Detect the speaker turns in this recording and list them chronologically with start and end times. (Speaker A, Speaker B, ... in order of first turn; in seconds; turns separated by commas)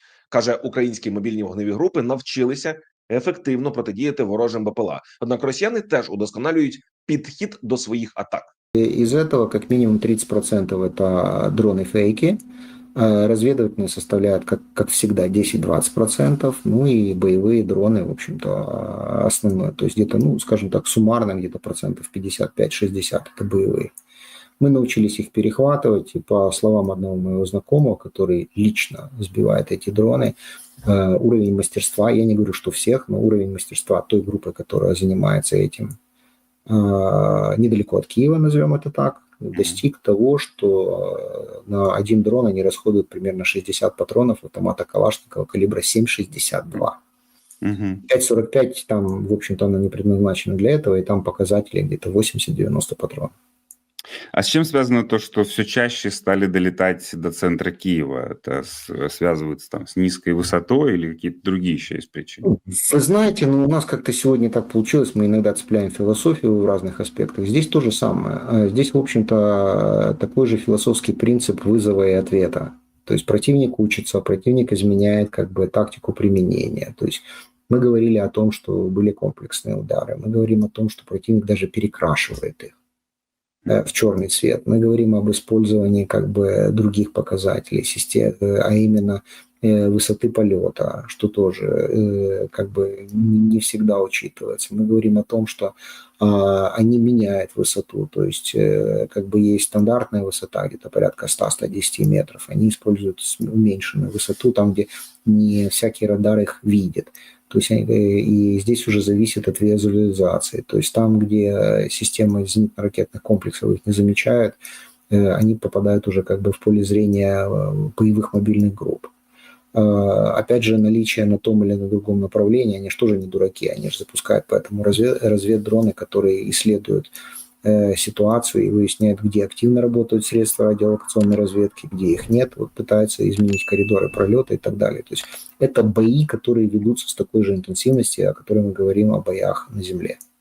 Speaker A: 0.3-8.5, Speaker B: 8.8-12.4, Speaker B: 12.9-23.9, Speaker B: 24.6-35.9, Speaker B: 36.7-47.0, Speaker C: 39.5-39.8, Speaker C: 47.6-48.0, Speaker B: 48.1-53.3, Speaker C: 54.3-62.4, Speaker B: 62.4-82.7, Speaker B: 83.7-119.1, Speaker B: 119.7-127.1, Speaker B: 127.6-140.2